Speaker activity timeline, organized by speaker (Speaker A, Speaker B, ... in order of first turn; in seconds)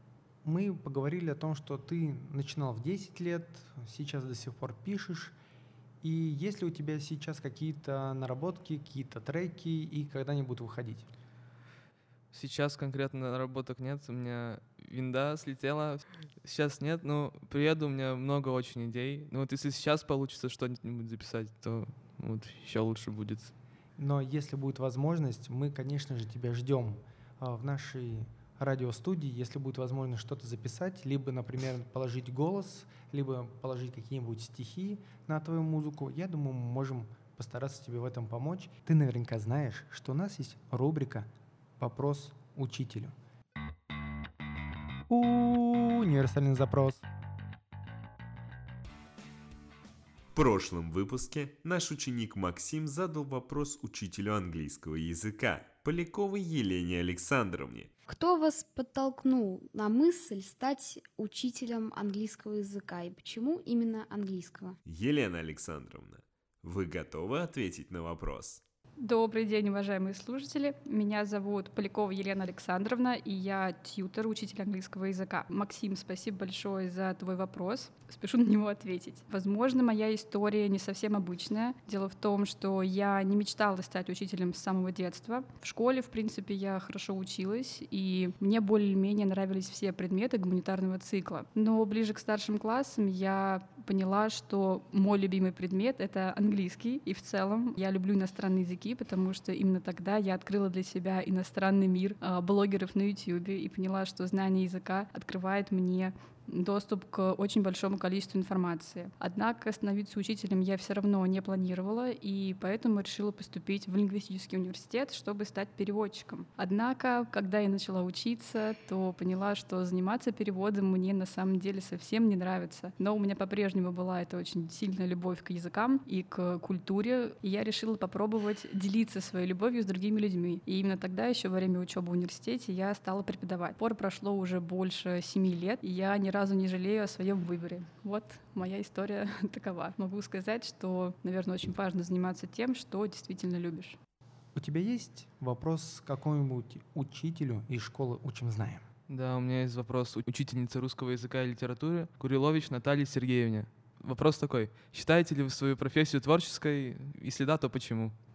Speaker A: 0.4-5.3, 6.0-11.1, 24.0-41.3, 41.8-43.1, 45.1-47.0, 144.5-148.8
Speaker B: 12.3-23.5, 149.1-158.1
Speaker C: 50.3-57.9, 64.8-68.6
Speaker D: 58.0-64.8
Speaker E: 69.0-144.0